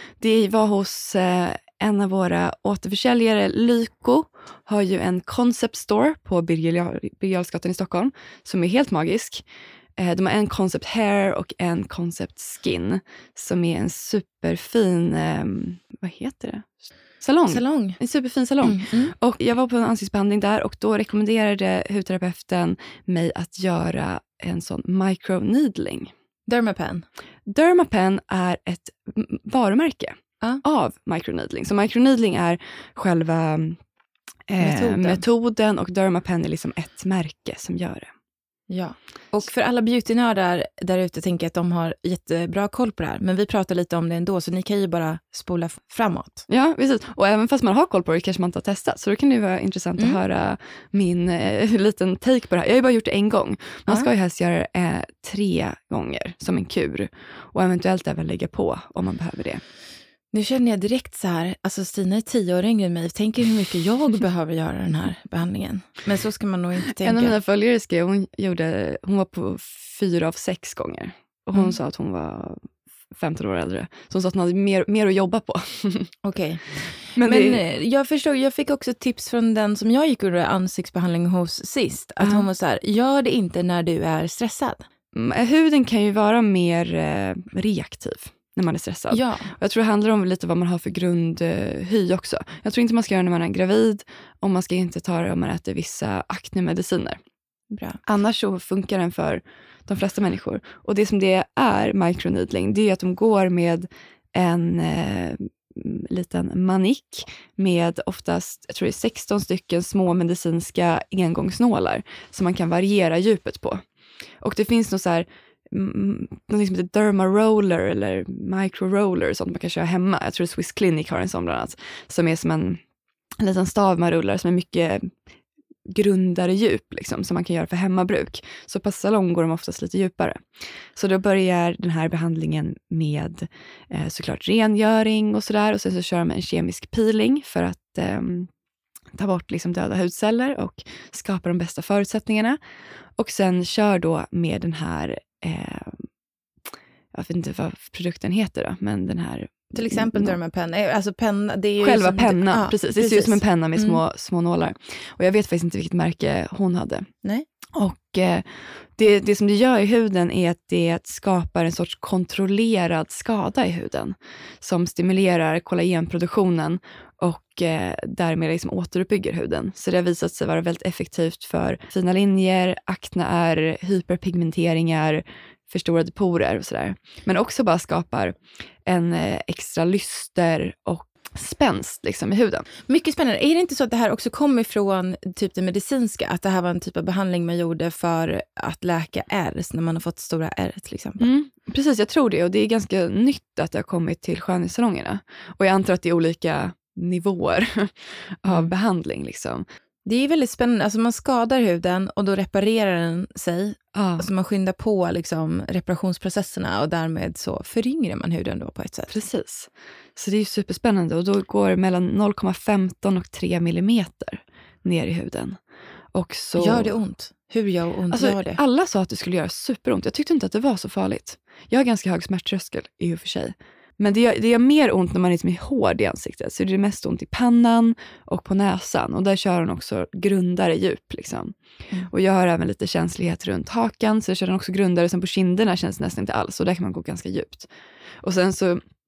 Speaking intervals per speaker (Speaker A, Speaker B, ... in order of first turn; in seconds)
Speaker A: 0.2-9.4, 9.9-26.1, 27.4-33.8, 34.5-38.1, 46.5-59.6, 66.9-76.1, 77.1-77.6, 82.2-82.5, 85.1-97.2, 98.0-113.8, 114.4-122.8, 123.4-125.1, 125.8-138.5, 139.2-142.6, 143.2-146.1, 147.1-150.4, 151.8-157.1, 157.7-182.7, 191.2-199.6, 203.9-204.3, 209.1-215.6, 216.1-216.9, 218.1-237.7, 238.2-238.8
Speaker B: 17.5-18.0, 18.6-19.1, 26.5-27.1, 34.6-35.2, 38.7-46.4, 60.3-67.3, 76.2-84.8, 89.1-89.5, 97.7-98.0, 149.7-154.0, 182.9-191.3, 198.4-198.7, 200.0-209.1, 216.6-218.6